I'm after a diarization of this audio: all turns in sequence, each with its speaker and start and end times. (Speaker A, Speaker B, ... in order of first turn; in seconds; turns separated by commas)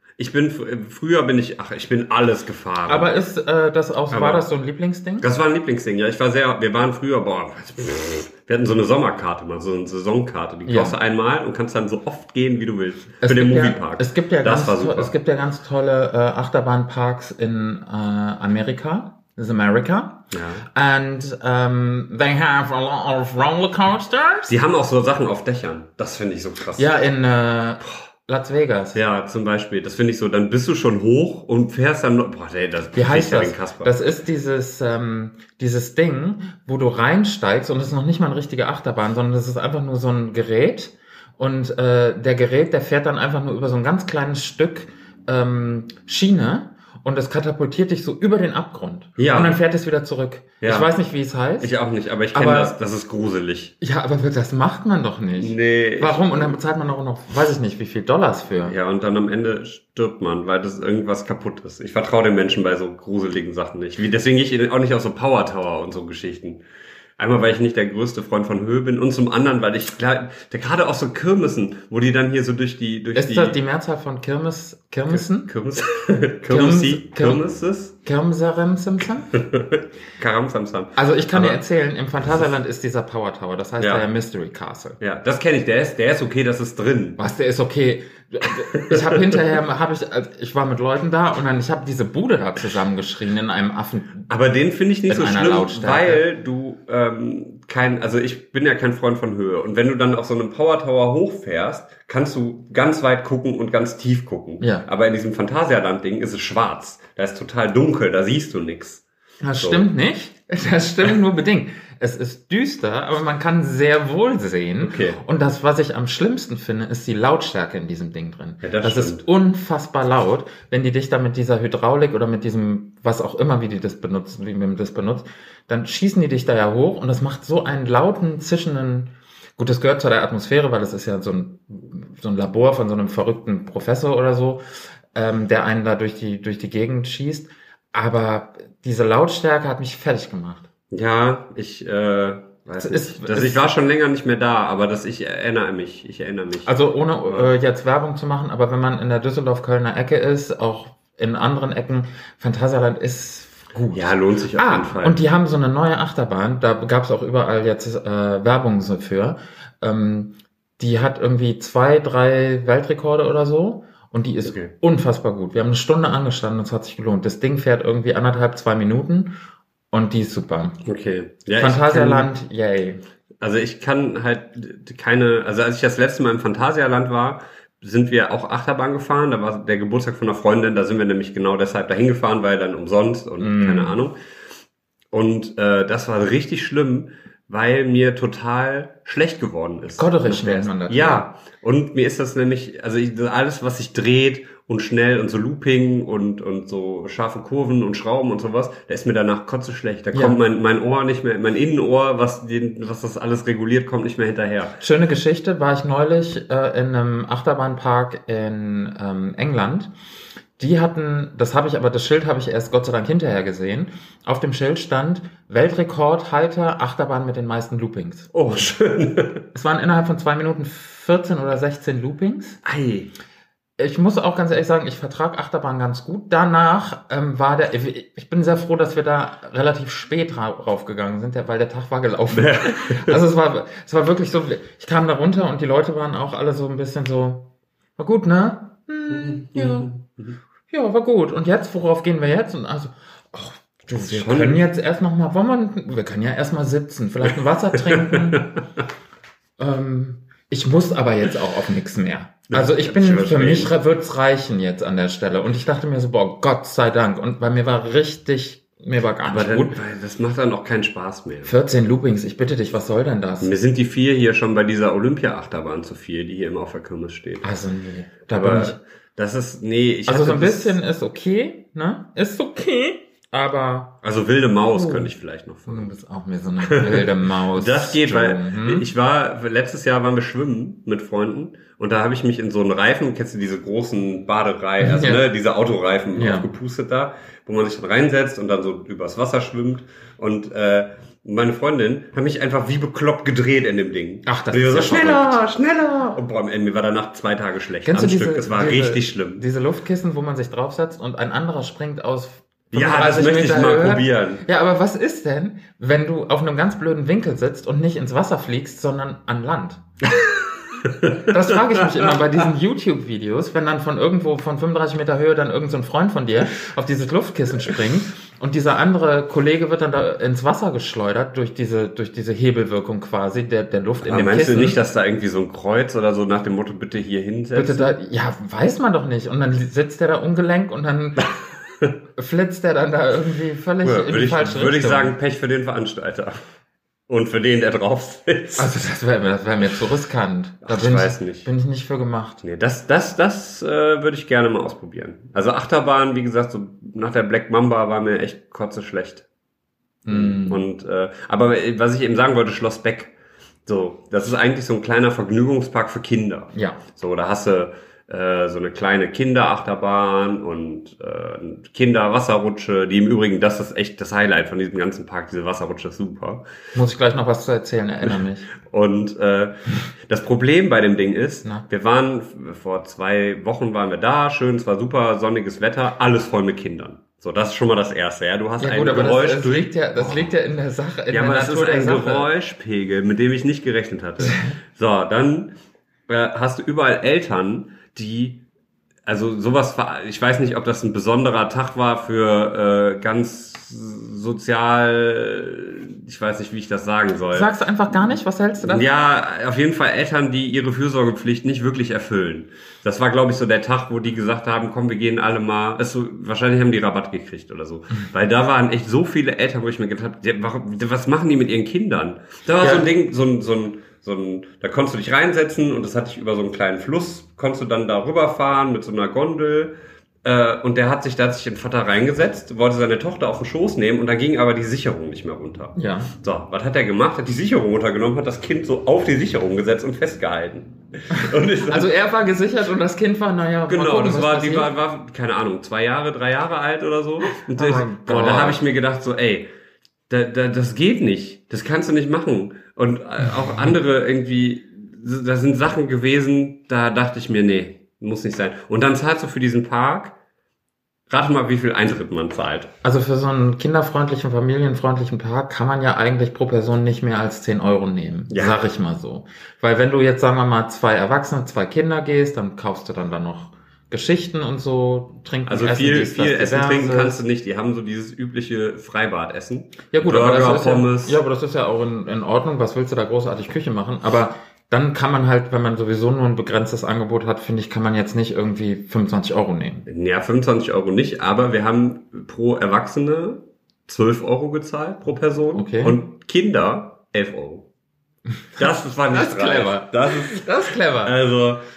Speaker A: 0.2-3.1, Speaker B: 2.9-5.3, Speaker A: 4.1-4.4, Speaker A: 5.2-15.1, Speaker B: 10.7-10.9, Speaker B: 13.2-24.5, Speaker A: 20.3-20.6, Speaker A: 24.4-26.9, Speaker B: 26.8-29.0, Speaker A: 28.9-33.9, Speaker B: 32.9-51.7, Speaker A: 49.2-49.5, Speaker A: 50.6-50.9, Speaker A: 51.6-53.7, Speaker B: 52.3-52.7, Speaker B: 53.8-58.7, Speaker A: 55.4-56.6, Speaker A: 58.6-66.6, Speaker A: 67.2-73.6, Speaker B: 73.1-75.5, Speaker A: 75.1-77.9, Speaker B: 76.5-77.4, Speaker B: 78.0-79.4, Speaker A: 79.3-81.6, Speaker B: 81.0-85.0, Speaker A: 85.0-87.2, Speaker B: 87.2-94.3, Speaker A: 88.7-89.4, Speaker A: 94.3-109.0, Speaker B: 95.1-96.2, Speaker B: 104.6-104.8, Speaker B: 109.4-140.7, Speaker A: 109.6-109.9, Speaker A: 114.8-115.2, Speaker A: 118.6-119.2, Speaker A: 140.9-146.7, Speaker B: 142.8-143.7, Speaker B: 146.7-169.3, Speaker A: 153.9-155.2, Speaker A: 164.4-164.7, Speaker B: 169.9-170.8, Speaker A: 170.8-172.3, Speaker B: 171.6-173.0, Speaker A: 173.4-184.2, Speaker B: 183.4-184.0, Speaker A: 185.1-204.8, Speaker B: 189.9-191.2, Speaker B: 200.1-200.4, Speaker B: 204.8-209.9, Speaker B: 210.6-218.3, Speaker A: 218.3-219.4, Speaker B: 219.5-222.6, Speaker A: 222.6-223.1, Speaker B: 223.8-239.9, Speaker A: 232.3-233.2, Speaker A: 239.1-240.4, Speaker B: 240.7-248.4, Speaker A: 243.9-244.6, Speaker A: 247.9-248.6, Speaker B: 249.6-259.8, Speaker A: 252.5-253.7, Speaker A: 259.3-261.5, Speaker B: 261.4-263.5, Speaker A: 263.4-267.5, Speaker B: 267.4-268.8, Speaker A: 268.3-270.8, Speaker B: 270.1-274.0, Speaker A: 274.0-275.9, Speaker B: 274.7-275.1, Speaker B: 275.7-278.9, Speaker A: 276.6-299.4, Speaker B: 284.8-285.3, Speaker B: 286.1-286.5, Speaker B: 294.2-295.4, Speaker B: 297.8-309.8, Speaker A: 302.7-304.4, Speaker A: 310.8-311.8, Speaker B: 311.3-324.8, Speaker A: 324.0-327.9, Speaker B: 327.5-331.3, Speaker B: 332.1-335.1, Speaker A: 333.8-336.4, Speaker A: 337.1-338.7, Speaker B: 338.6-342.4, Speaker A: 340.6-341.5, Speaker A: 342.4-349.2, Speaker B: 350.0-350.6, Speaker A: 350.1-353.1, Speaker A: 353.6-366.4, Speaker B: 356.5-356.8, Speaker B: 366.7-368.4, Speaker A: 368.6-380.3, Speaker B: 378.6-382.3, Speaker A: 381.1-385.5, Speaker B: 384.2-384.5, Speaker A: 386.1-388.4, Speaker A: 389.1-397.5, Speaker B: 397.3-398.9, Speaker A: 398.6-419.7, Speaker B: 412.6-412.9, Speaker A: 420.2-431.9, Speaker B: 425.8-426.1, Speaker B: 431.2-434.7, Speaker A: 433.7-439.5, Speaker B: 437.5-438.6, Speaker A: 440.1-450.1, Speaker A: 451.1-452.7, Speaker B: 452.8-467.2, Speaker A: 458.3-458.6, Speaker A: 465.4-471.2, Speaker B: 469.9-479.9, Speaker A: 479.9-487.6, Speaker B: 485.5-486.0, Speaker A: 488.6-490.4, Speaker B: 488.6-491.1, Speaker A: 491.0-491.6